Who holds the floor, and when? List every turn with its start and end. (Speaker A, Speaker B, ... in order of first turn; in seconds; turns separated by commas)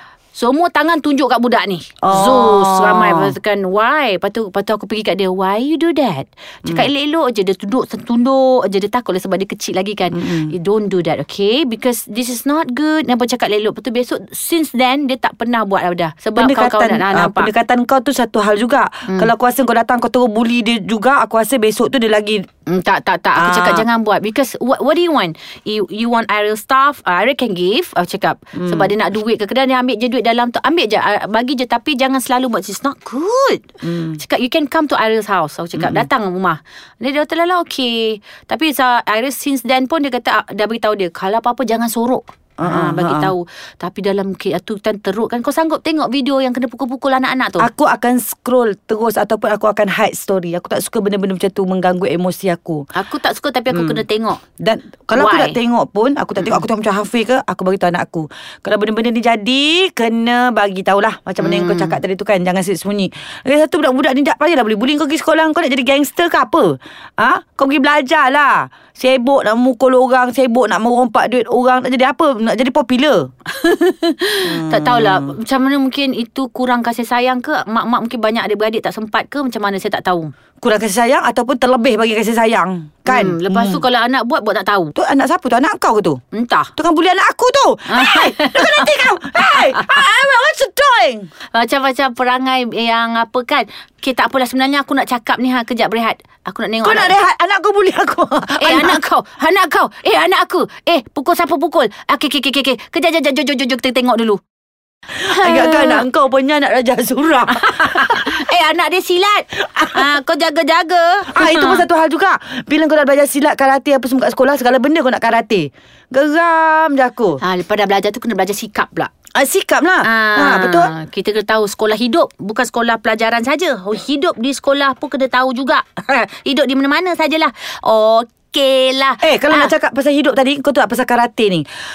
Speaker A: 0.3-17.5, Speaker B: 2.0-3.3, Speaker B: 10.1-10.5, Speaker B: 16.4-22.4, Speaker A: 22.7-47.7, Speaker B: 23.4-23.8, Speaker B: 28.5-28.9, Speaker B: 33.8-34.2, Speaker B: 35.8-36.1, Speaker B: 42.6-43.3, Speaker B: 47.6-52.8, Speaker A: 52.9-54.4, Speaker B: 53.7-54.0, Speaker B: 54.6-73.3, Speaker A: 55.1-55.6, Speaker A: 61.4-62.0, Speaker A: 73.5-80.3, Speaker B: 74.4-75.3, Speaker B: 80.6-83.8, Speaker A: 83.1-84.9, Speaker B: 85.0-86.2, Speaker A: 86.3-86.7, Speaker B: 86.8-91.3, Speaker A: 87.9-88.9, Speaker A: 89.5-90.0, Speaker A: 91.5-97.2, Speaker B: 96.8-99.0, Speaker A: 98.5-104.4, Speaker B: 105.1-108.4, Speaker A: 105.2-106.0, Speaker A: 107.5-111.8, Speaker B: 109.7-110.1, Speaker B: 111.3-117.4, Speaker A: 117.4-119.1, Speaker B: 119.3-120.9, Speaker A: 120.0-129.7, Speaker B: 129.2-131.7